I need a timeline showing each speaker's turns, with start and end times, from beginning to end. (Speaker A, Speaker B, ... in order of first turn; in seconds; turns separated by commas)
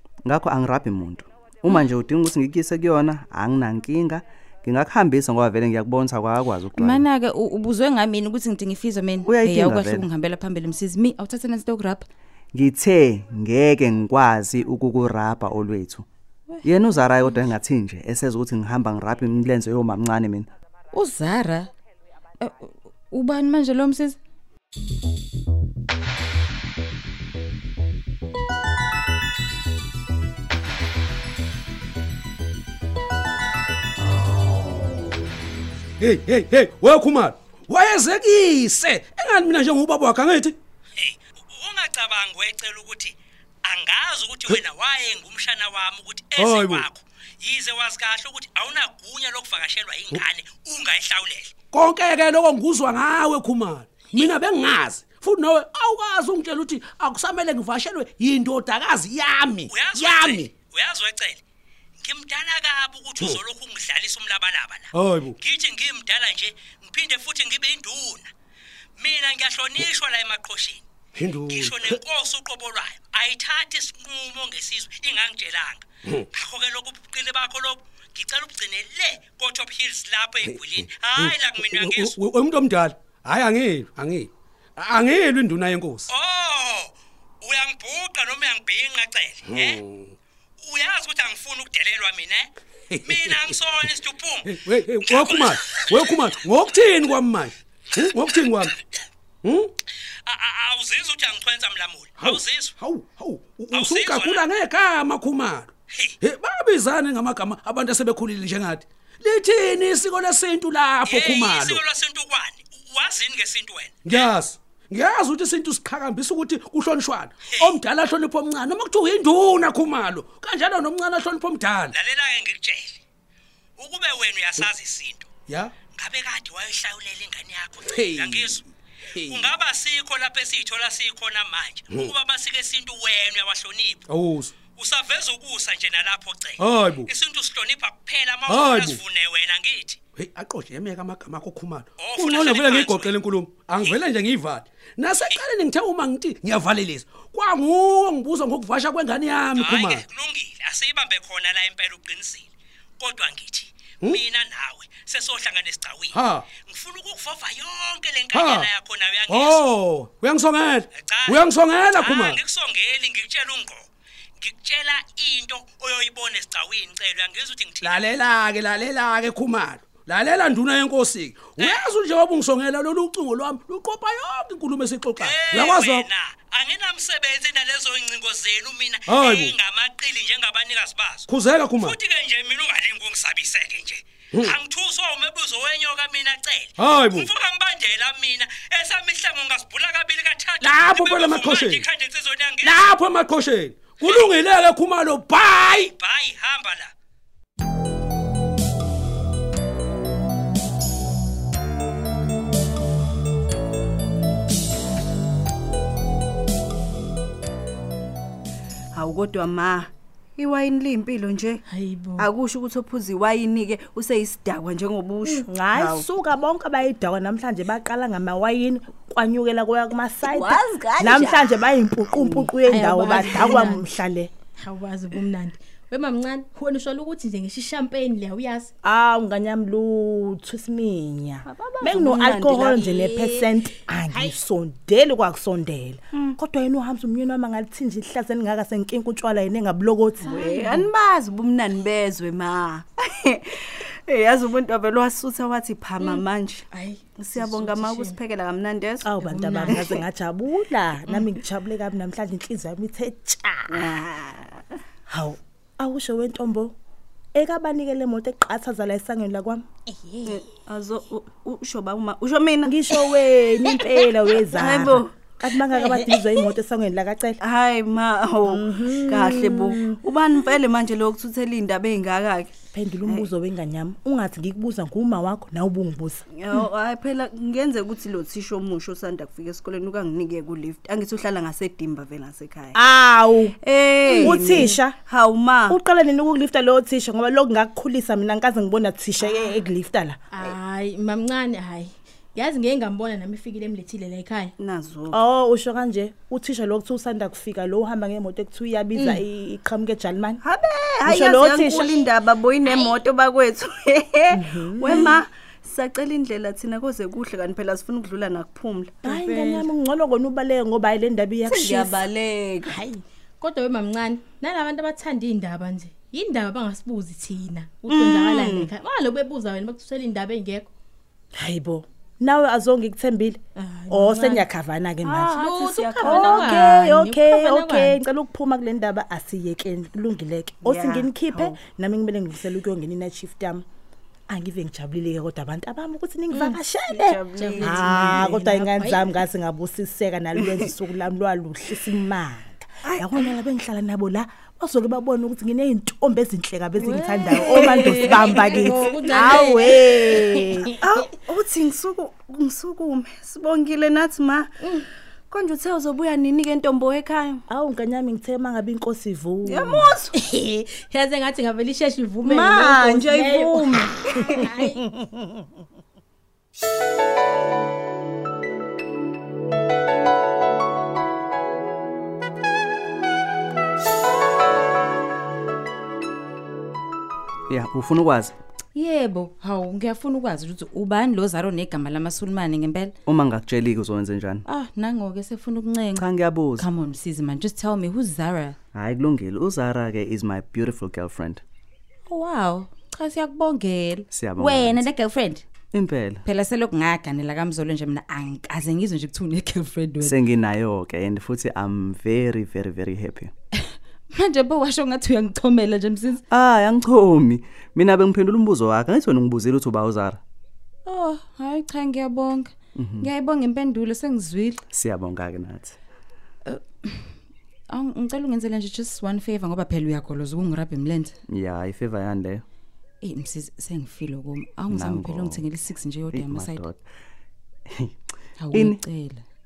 Speaker A: 0.2-7.1, Speaker B: 6.7-12.0, Speaker A: 9.2-10.1, Speaker A: 12.5-16.0, Speaker A: 16.6-20.5, Speaker B: 20.9-21.7, Speaker B: 22.4-24.2, Speaker C: 36.0-40.5, Speaker D: 41.0-51.5, Speaker C: 46.4-46.9, Speaker C: 51.7-60.5, Speaker D: 59.7-61.4, Speaker D: 62.0-68.3, Speaker C: 64.9-65.4, Speaker D: 69.0-70.8, Speaker C: 71.2-72.0, Speaker D: 71.4-82.2, Speaker C: 80.5-86.1, Speaker D: 86.1-89.8, Speaker C: 89.5-90.1, Speaker D: 90.6-92.5, Speaker C: 92.9-93.3, Speaker D: 93.0-94.5, Speaker C: 94.5-98.7, Speaker D: 95.0-96.3, Speaker D: 98.0-98.7, Speaker C: 99.4-99.7, Speaker D: 100.2-102.7, Speaker C: 102.2-105.7, Speaker D: 103.7-104.5, Speaker D: 105.9-106.2, Speaker C: 106.2-111.8, Speaker D: 111.0-114.3, Speaker C: 114.0-121.9, Speaker D: 117.5-117.8, Speaker D: 121.9-123.0, Speaker D: 123.8-125.3, Speaker C: 125.5-125.7, Speaker D: 125.9-128.6, Speaker C: 127.9-128.6, Speaker C: 129.1-129.5, Speaker D: 129.2-134.0, Speaker C: 134.1-134.5, Speaker D: 134.7-140.0, Speaker C: 136.6-137.1, Speaker C: 138.5-139.0, Speaker C: 140.2-150.0, Speaker D: 142.0-143.2, Speaker D: 149.6-152.5, Speaker D: 153.0-159.6, Speaker C: 156.1-156.5, Speaker C: 158.3-158.7, Speaker C: 159.3-162.4, Speaker D: 160.9-163.9, Speaker D: 164.4-168.0, Speaker C: 167.8-176.1, Speaker D: 171.6-171.8, Speaker D: 175.2-192.8, Speaker C: 179.1-179.5, Speaker C: 181.3-181.9, Speaker C: 186.8-187.3, Speaker C: 190.6-191.8, Speaker C: 192.6-195.9, Speaker D: 194.0-194.3, Speaker D: 195.6-196.9, Speaker E: 208.9-211.6, Speaker F: 211.7-212.3, Speaker E: 212.2-216.1, Speaker G: 215.4-224.3, Speaker E: 220.2-222.5, Speaker F: 222.6-223.9, Speaker F: 224.6-228.7, Speaker G: 228.8-240.4, Speaker E: 231.4-233.5, Speaker F: 240.2-240.9, Speaker E: 240.3-249.2, Speaker F: 246.0-248.2, Speaker G: 249.0-253.9, Speaker F: 249.2-249.9, Speaker E: 249.7-250.0, Speaker E: 253.7-254.8, Speaker G: 255.1-256.7, Speaker G: 257.3-259.6, Speaker E: 260.2-262.8, Speaker G: 262.6-267.4, Speaker E: 264.5-265.1, Speaker E: 265.7-266.4, Speaker E: 267.4-273.3, Speaker G: 268.4-270.0, Speaker G: 272.7-276.2, Speaker E: 276.3-282.7, Speaker G: 282.7-283.6, Speaker E: 283.6-285.8, Speaker G: 284.1-285.0, Speaker G: 285.7-290.2, Speaker F: 289.2-289.6, Speaker F: 290.3-294.5, Speaker E: 294.6-295.2, Speaker G: 295.1-300.4, Speaker F: 298.9-299.2, Speaker E: 300.4-309.0, Speaker G: 301.0-302.1, Speaker G: 304.3-305.2, Speaker G: 309.0-312.1, Speaker F: 309.1-309.7, Speaker E: 311.4-312.8, Speaker F: 312.7-320.7, Speaker G: 317.9-318.1, Speaker E: 317.9-318.7, Speaker G: 321.4-325.4, Speaker F: 323.6-324.5, Speaker E: 325.0-326.6, Speaker F: 325.4-328.0, Speaker G: 326.0-333.6, Speaker E: 330.6-331.6, Speaker G: 334.3-350.7, Speaker F: 336.3-336.6, Speaker E: 336.9-338.3, Speaker F: 337.3-339.2, Speaker E: 340.4-340.7, Speaker E: 342.8-343.3, Speaker F: 346.8-350.7, Speaker E: 347.3-349.4, Speaker E: 350.8-354.6, Speaker E: 355.3-357.4, Speaker G: 357.5-360.0, Speaker E: 359.4-360.1, Speaker F: 360.1-364.7, Speaker E: 362.2-364.3, Speaker G: 364.2-364.8, Speaker A: 377.5-378.3, Speaker B: 378.7-382.9, Speaker A: 383.1-384.4, Speaker B: 384.4-388.6, Speaker A: 385.9-386.7, Speaker A: 388.7-391.4, Speaker B: 392.1-395.4, Speaker A: 394.1-394.9, Speaker A: 395.7-396.2, Speaker B: 396.2-400.1, Speaker A: 400.0-403.3, Speaker B: 404.1-406.2, Speaker A: 406.3-410.2, Speaker B: 410.9-414.6, Speaker A: 412.7-413.1, Speaker A: 414.7-415.8, Speaker B: 416.4-417.1, Speaker B: 417.7-421.1, Speaker A: 421.3-422.4, Speaker B: 423.0-426.6, Speaker A: 424.7-425.4, Speaker A: 426.1-426.8, Speaker B: 428.4-429.2, Speaker A: 428.5-428.8